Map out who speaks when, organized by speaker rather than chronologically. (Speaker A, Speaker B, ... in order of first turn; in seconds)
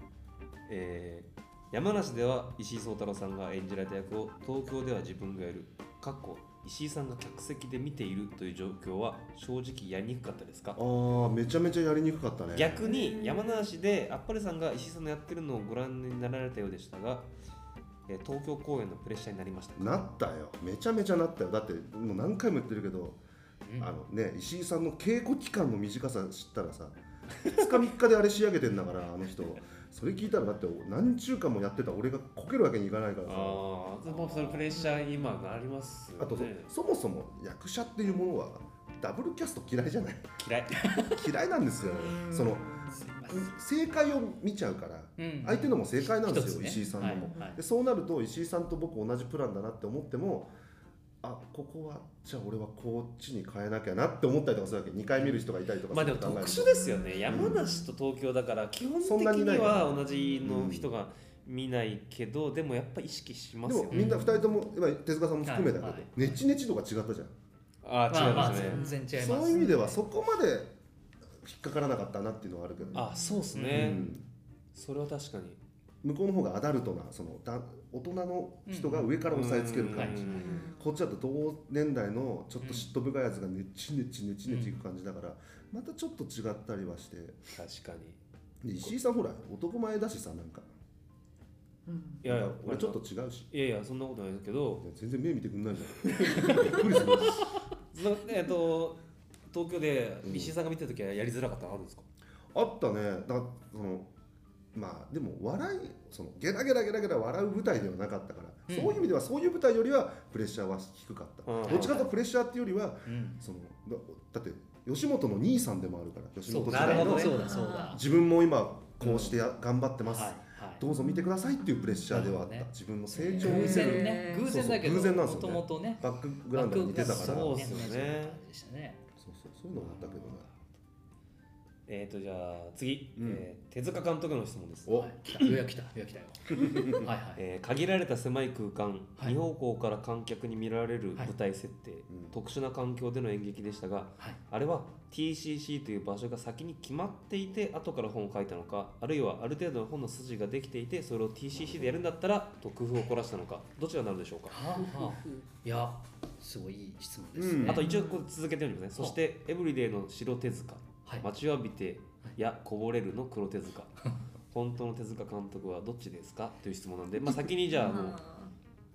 Speaker A: 0.7-10.8, 12.5-17.3, 18.1-20.0, 33.2-36.7, 40.4-40.8, 55.9-64.1, 67.8-68.9, 72.9-74.1, 74.7-75.6, 79.3-80.7, 87.5-88.2, 92.2-94.8, 96.1-97.4, 97.9-102.0, 111.5-112.1, 116.7-117.4, 126.9-128.4, 131.9-135.0, 137.4-154.6, 157.7-164.0, 164.5-168.2
Speaker B: 10.8-12.9, 19.8-23.2, 23.8-33.6, 36.2-40.4, 41.0-50.5, 51.2-56.7, 57.3-57.7, 59.0-60.9, 63.6-67.3, 69.1-70.8, 71.4-74.3, 76.0-87.5, 88.6-90.7, 92.2-93.5, 94.8-97.5, 100.2-100.5, 102.5-104.1, 104.7-127.8, 129.2-130.5, 133.2-133.4, 134.9-135.1, 136.5-137.1, 142.1-142.3, 151.6-152.0, 157.4-157.8
Speaker C: 12.8-13.7, 34.7-35.4, 41.8-43.2, 46.9-47.6, 56.5-57.9, 60.2-60.5, 68.2-69.8, 72.8-73.5, 80.4-81.1, 91.9-92.2, 117.1-118.0, 120.9-122.2, 123.1-124.5, 154.8-155.5, 157.7-158.2, 167.7-168.5
Speaker D: 23.6-23.9, 40.8-41.2, 42.9-43.5, 45.2-47.6, 63.9-64.4, 65.5-66.3, 68.1-70.0, 73.5-74.0, 78.7-79.3, 79.9-80.5, 82.6-82.9, 84.5-84.8, 108.7-109.1, 111.7-112.1, 113.1-113.4, 116.5-118.0, 119.0-119.4, 120.1-120.8, 122.1-122.7, 123.3-129.0, 129.8-130.4, 134.9-137.4, 154.5-157.9